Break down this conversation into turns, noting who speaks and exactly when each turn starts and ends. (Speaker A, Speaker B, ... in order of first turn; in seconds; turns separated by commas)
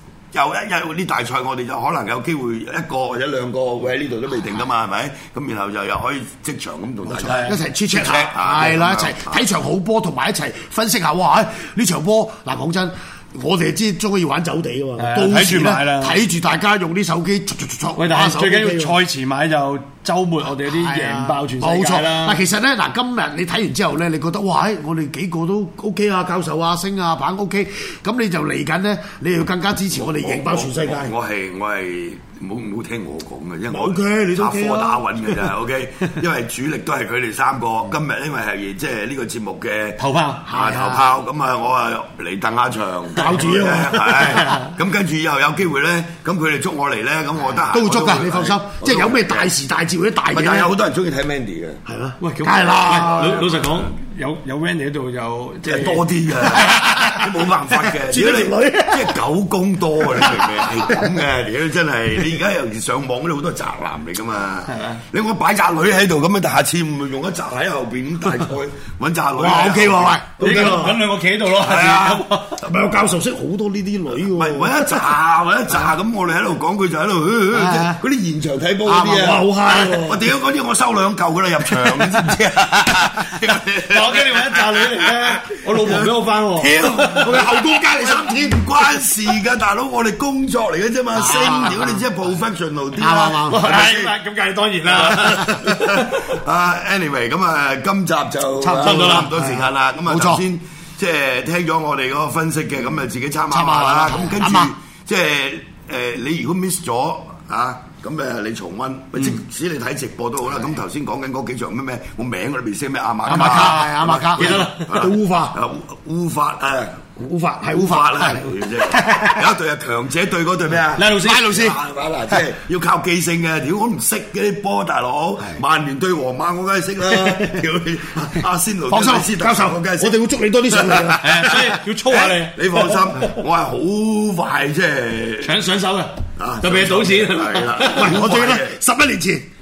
Speaker A: 0.3-9.4, Speaker B: 7.2-19.0, Speaker C: 7.2-7.6, Speaker C: 15.0-16.2, Speaker C: 18.0-22.4, Speaker B: 20.6-31.1, Speaker A: 29.9-49.5, Speaker B: 33.7-35.5, Speaker C: 40.0-40.5, Speaker B: 40.5-41.1, Speaker B: 43.1-44.6, Speaker C: 44.1-44.7, Speaker B: 47.7-50.7, Speaker A: 50.3-51.8, Speaker B: 51.9-53.6, Speaker C: 52.2-56.9, Speaker A: 55.6-70.9, Speaker B: 56.5-57.3, Speaker B: 57.9-59.2, Speaker B: 60.0-61.1, Speaker B: 69.4-71.0, Speaker C: 70.4-72.6, Speaker A: 71.5-72.3, Speaker B: 72.6-75.2, Speaker A: 74.3-94.1, Speaker B: 77.5-78.0, Speaker B: 78.9-80.3, Speaker C: 83.8-87.3, Speaker B: 87.2-88.6, Speaker B: 91.1-92.0, Speaker B: 93.0-93.7, Speaker C: 93.5-96.2, Speaker A: 94.9-117.1, Speaker B: 98.6-100.4, Speaker C: 98.7-99.3, Speaker B: 103.5-104.7, Speaker B: 113.3-115.6, Speaker C: 113.3-114.9, Speaker B: 117.2-119.5, Speaker A: 117.7-135.6, Speaker C: 121.0-121.5, Speaker B: 121.2-121.8, Speaker B: 128.9-131.6, Speaker C: 131.2-132.9, Speaker C: 135.4-138.1, Speaker A: 136.4-138.7, Speaker B: 137.8-139.5